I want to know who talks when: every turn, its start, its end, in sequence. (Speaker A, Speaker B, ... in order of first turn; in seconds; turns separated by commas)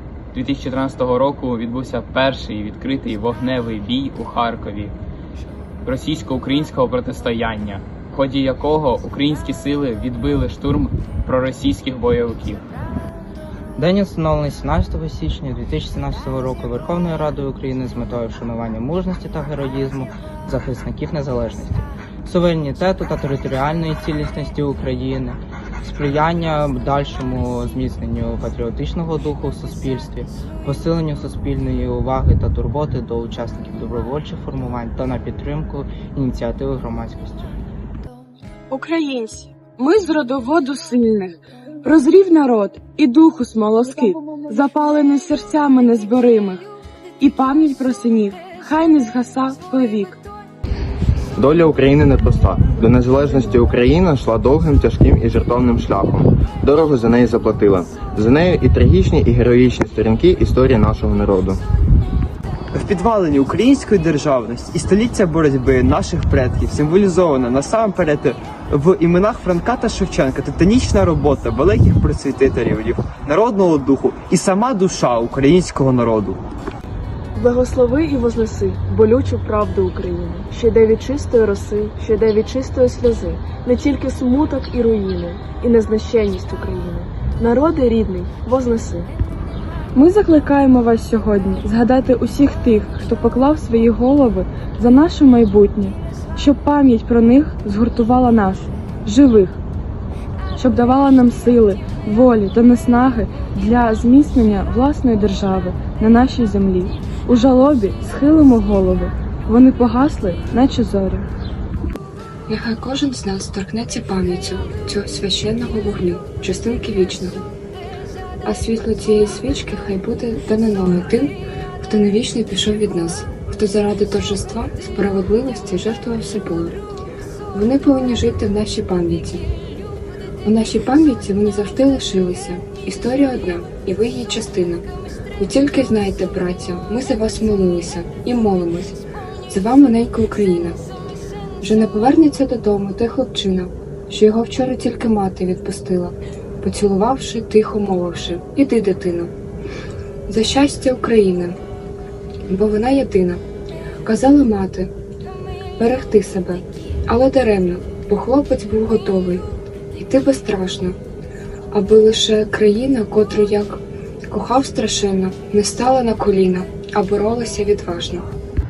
Speaker A: 0.3-4.9, Speaker A: 5.8-12.6, Speaker B: 13.8-37.5, Speaker C: 38.7-46.6, Speaker C: 47.2-50.2, Speaker D: 51.4-61.6, Speaker E: 62.7-76.4, Speaker F: 77.3-89.1, Speaker C: 89.9-99.6, Speaker C: 100.5-111.3, Speaker G: 112.5-117.4, Speaker G: 118.4-126.8, Speaker G: 127.5-129.4, Speaker G: 130.4-134.8, Speaker G: 135.4-140.8, Speaker G: 141.6-149.3, Speaker G: 150.3-151.6, Speaker G: 152.5-153.4, Speaker G: 154.0-154.9, Speaker G: 155.8-160.9, Speaker G: 161.7-168.2